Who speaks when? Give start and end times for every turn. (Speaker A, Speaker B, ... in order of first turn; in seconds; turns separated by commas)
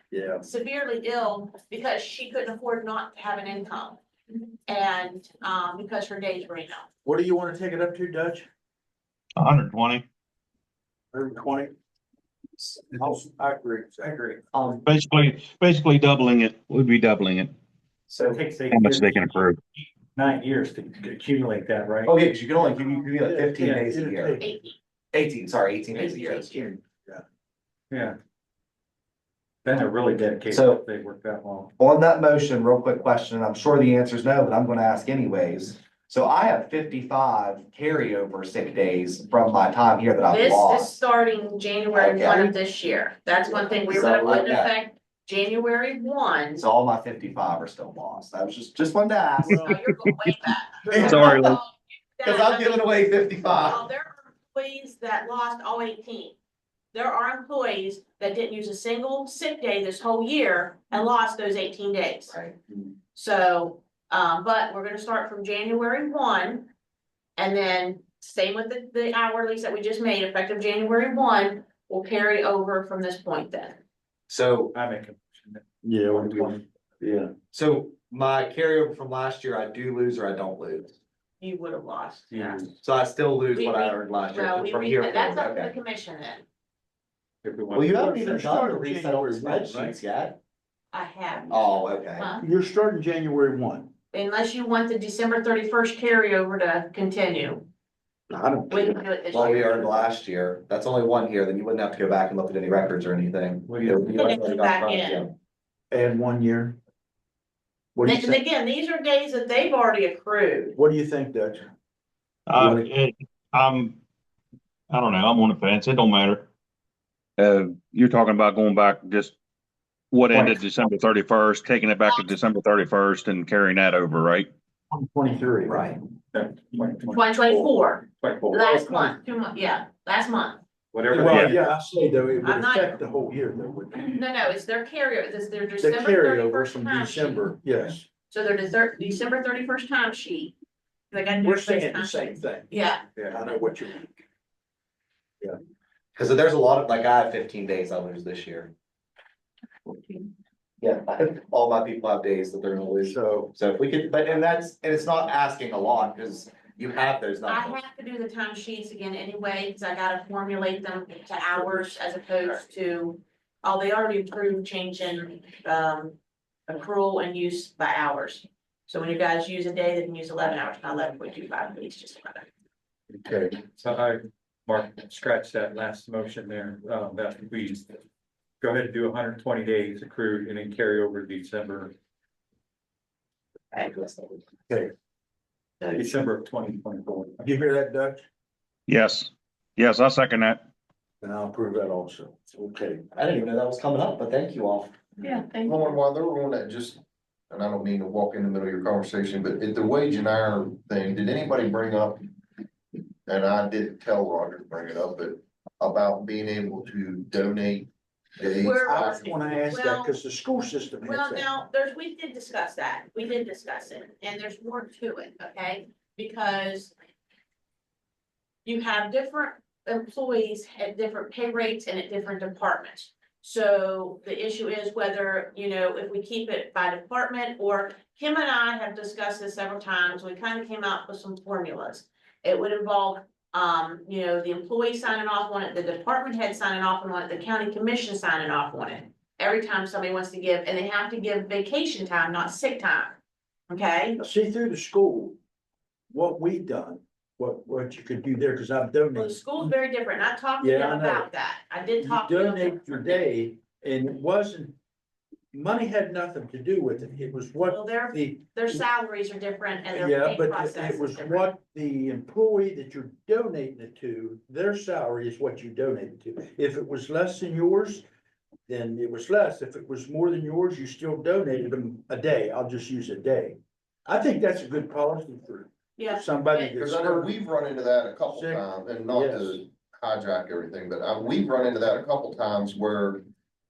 Speaker A: 0.1-0.4, Speaker B: 0.4-4.0, Speaker B: 4.7-6.9, Speaker A: 7.0-8.5, Speaker C: 9.3-10.0, Speaker A: 11.1-11.7, Speaker D: 12.6-13.2, Speaker A: 12.9-14.4, Speaker D: 14.5-14.8, Speaker C: 14.8-17.5, Speaker D: 18.1-18.4, Speaker E: 18.2-22.1, Speaker C: 18.7-19.6, Speaker D: 22.0-24.4, Speaker A: 23.2-24.4, Speaker E: 23.6-23.8, Speaker B: 24.4-24.7, Speaker D: 25.1-26.5, Speaker B: 26.1-26.4, Speaker A: 26.4-27.2, Speaker E: 27.9-28.2, Speaker E: 29.6-31.7, Speaker D: 30.5-30.8, Speaker D: 31.8-40.9, Speaker B: 40.3-46.6, Speaker D: 41.9-42.5, Speaker D: 43.8-44.7, Speaker D: 46.6-49.7, Speaker B: 49.5-56.4, Speaker D: 50.9-51.6, Speaker C: 50.9-51.4, Speaker D: 52.2-53.9, Speaker B: 56.9-62.4, Speaker D: 62.3-62.6, Speaker B: 63.1-66.7, Speaker B: 67.4-73.8, Speaker D: 74.3-74.7, Speaker E: 74.7-76.6, Speaker A: 75.8-77.3, Speaker D: 77.5-81.0, Speaker B: 81.4-82.7, Speaker E: 82.3-82.7, Speaker D: 82.8-85.7, Speaker B: 83.5-86.4, Speaker E: 87.4-88.0, Speaker D: 87.7-90.4, Speaker A: 87.9-90.0, Speaker B: 90.9-92.5, Speaker D: 91.5-92.3, Speaker A: 92.4-93.9, Speaker B: 94.1-97.7, Speaker A: 98.3-99.0, Speaker B: 98.7-99.9, Speaker D: 99.3-105.3, Speaker E: 103.7-104.6, Speaker B: 104.1-105.2, Speaker A: 105.9-106.8, Speaker A: 107.9-108.4, Speaker B: 108.0-110.8, Speaker A: 110.8-111.7, Speaker C: 112.5-114.0, Speaker A: 112.6-112.8, Speaker C: 114.9-116.5, Speaker C: 117.4-119.3, Speaker C: 120.1-124.5, Speaker A: 124.9-125.8, Speaker D: 125.6-126.0, Speaker E: 126.3-129.1, Speaker B: 127.1-130.6, Speaker E: 130.9-131.6, Speaker A: 131.1-134.2, Speaker C: 131.1-131.5, Speaker B: 132.4-132.9, Speaker B: 133.9-137.5, Speaker A: 135.8-138.1, Speaker B: 138.3-140.5, Speaker B: 141.1-143.1, Speaker A: 141.4-144.2, Speaker D: 146.1-148.7, Speaker D: 150.8-157.8, Speaker A: 153.1-153.5, Speaker B: 157.5-166.2, Speaker B: 166.7-172.5, Speaker E: 173.1-178.0, Speaker E: 178.6-181.9, Speaker D: 183.8-184.4, Speaker E: 185.9-187.4, Speaker A: 187.4-188.2, Speaker C: 188.9-190.6, Speaker A: 191.2-193.0, Speaker D: 193.1-195.0, Speaker B: 195.2-195.9, Speaker F: 195.6-202.2, Speaker F: 203.2-209.2, Speaker B: 208.6-210.2, Speaker A: 208.8-211.5, Speaker B: 211.0-216.9, Speaker B: 218.6-243.2, Speaker B: 243.7-244.2, Speaker A: 244.2-245.4, Speaker A: 246.1-249.7, Speaker B: 249.1-253.3, Speaker A: 250.6-251.3, Speaker A: 252.0-254.8, Speaker A: 255.5-258.4, Speaker B: 257.6-261.5, Speaker A: 259.9-268.0, Speaker A: 268.7-277.4, Speaker B: 276.0-276.7, Speaker F: 276.7-283.2, Speaker A: 278.3-279.6